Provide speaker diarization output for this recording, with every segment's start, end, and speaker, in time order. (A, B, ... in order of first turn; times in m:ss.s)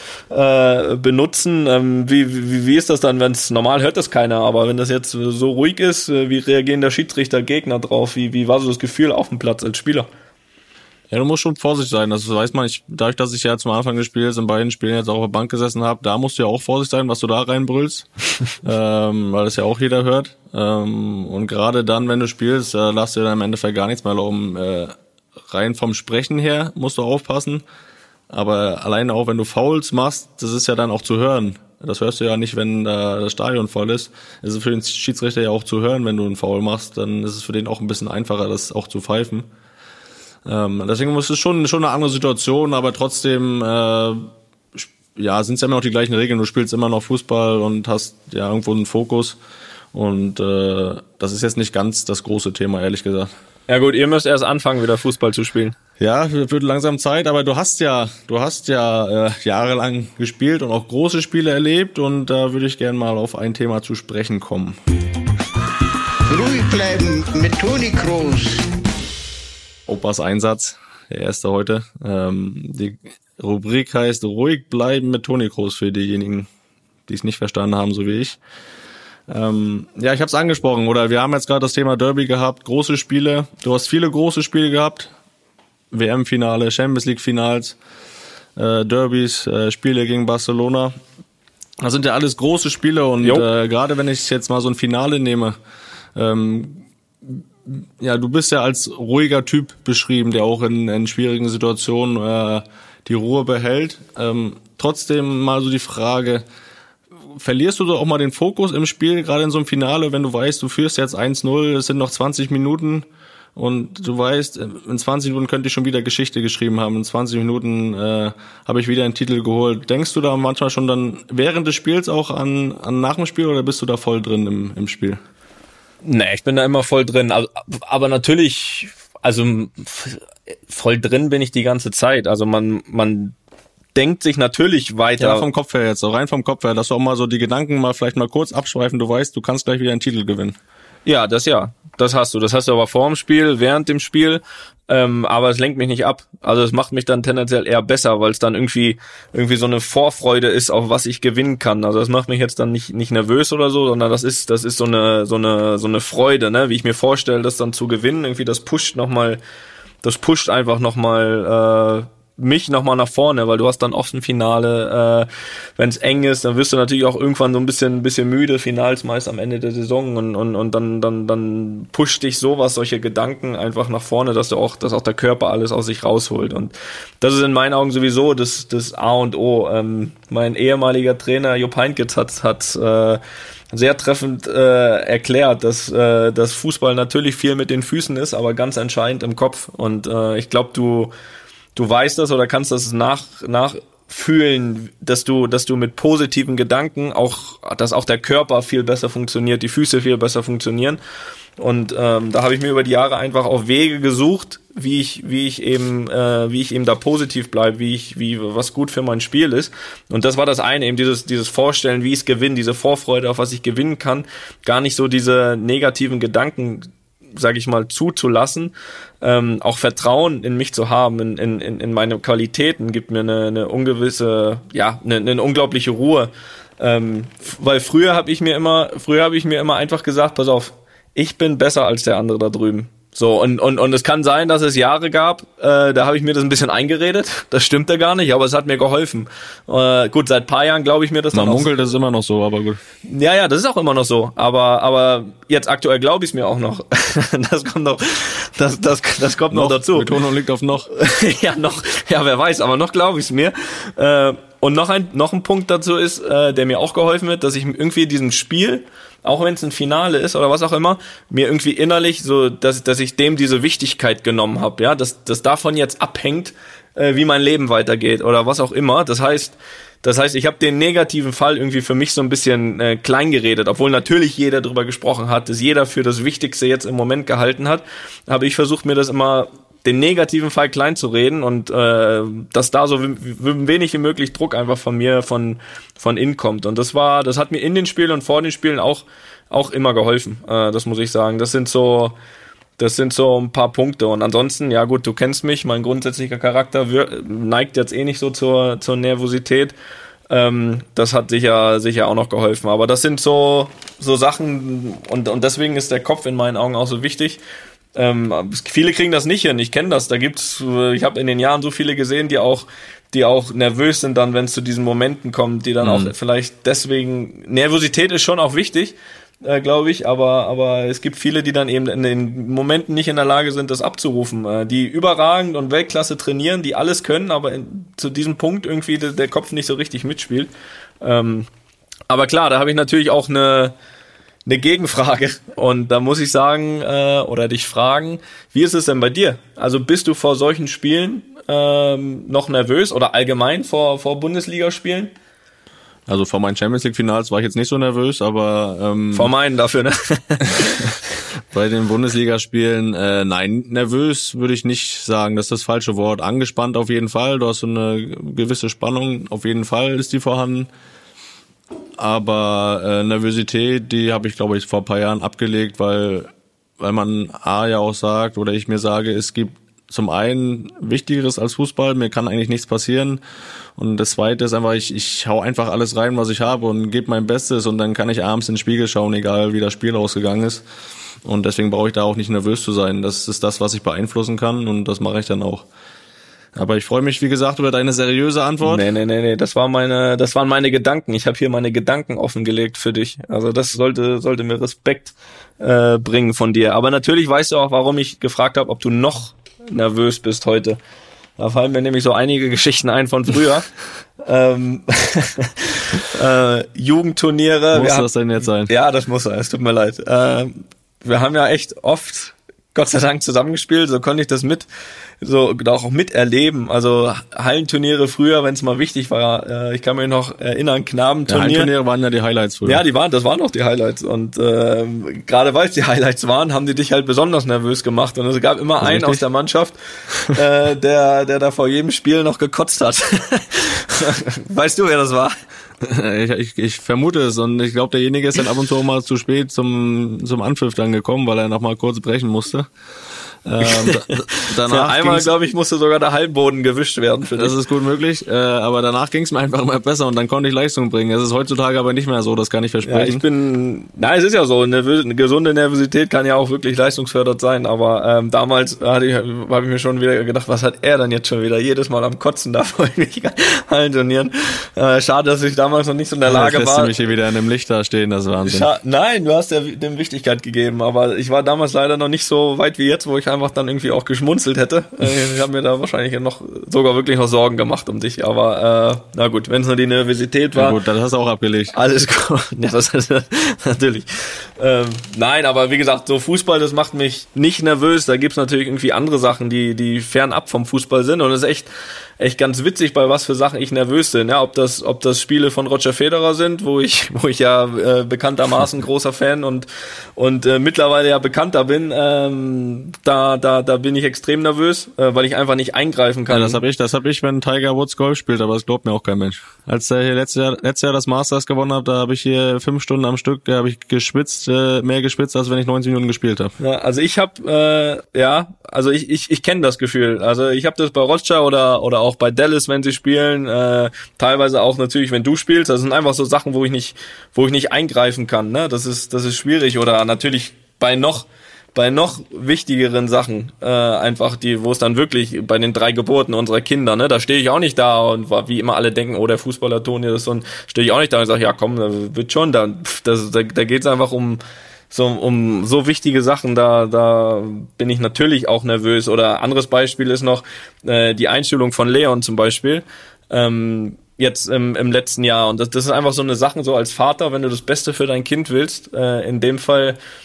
0:00.3-0:10.1 A
0:11.1-0:18.1 B
0:18.6-0:24.9 B
0:25.5-0:27.6 B
0:28.3-0:39.5 B
0:40.4-0:49.4 B
0:49.9-0:53.3 B
0:53.7-0:55.8 A
0:56.0-1:04.8 B
1:06.3-1:08.7 C
1:09.9-1:16.5 B
1:17.1-1:18.4 B
1:19.3-1:25.1 B
1:25.9-1:27.8 B
1:28.6-1:30.9 B
1:31.8-1:35.6 B
1:36.1-1:46.4 B
1:47.4-2:05.2 B
2:06.0-2:13.4 A
2:13.9-2:15.5 A
2:15.2-2:20.6 B
2:21.0-2:39.4 A
2:40.0-3:03.2 A
3:03.7-3:11.1 A
3:11.7-3:21.0 A
3:21.6-4:01.7 A
4:01.3-4:02.8 B
4:03.0-4:10.1 A
4:09.5-4:10.9 B
4:10.9-4:52.2 A
4:52.8-4:59.7 A
5:00.3-5:07.4 A
5:07.9-5:31.5 A
5:15.8-5:16.1 B
5:32.1-5:33.7 A
5:34.4-5:45.1 A
5:46.1-5:49.3 B
5:49.1-5:51.0 A
5:51.5-6:00.7 B
6:02.0-6:13.2 B
6:13.8-6:20.6 B
6:21.2-6:25.6 B
6:26.5-6:28.8 B
6:28.6-6:40.8 A
6:41.4-6:43.6 A
6:44.2-6:48.1 A
6:47.7-6:48.7 B
6:48.6-6:54.7 A
6:55.2-7:01.7 A
7:01.3-7:02.8 B
7:02.6-7:15.3 A
7:08.8-7:09.2 B
7:15.8-7:22.7 B
7:23.4-7:25.3 B
7:23.6-7:27.5 A
7:27.4-7:33.2 B
7:32.8-7:46.9 A
7:46.2-7:48.7 B
7:48.4-8:00.8 A
8:00.5-8:01.7 B
8:01.7-8:04.1 A
8:04.6-8:26.6 A
8:26.3-8:36.5 B
8:36.6-9:20.0 A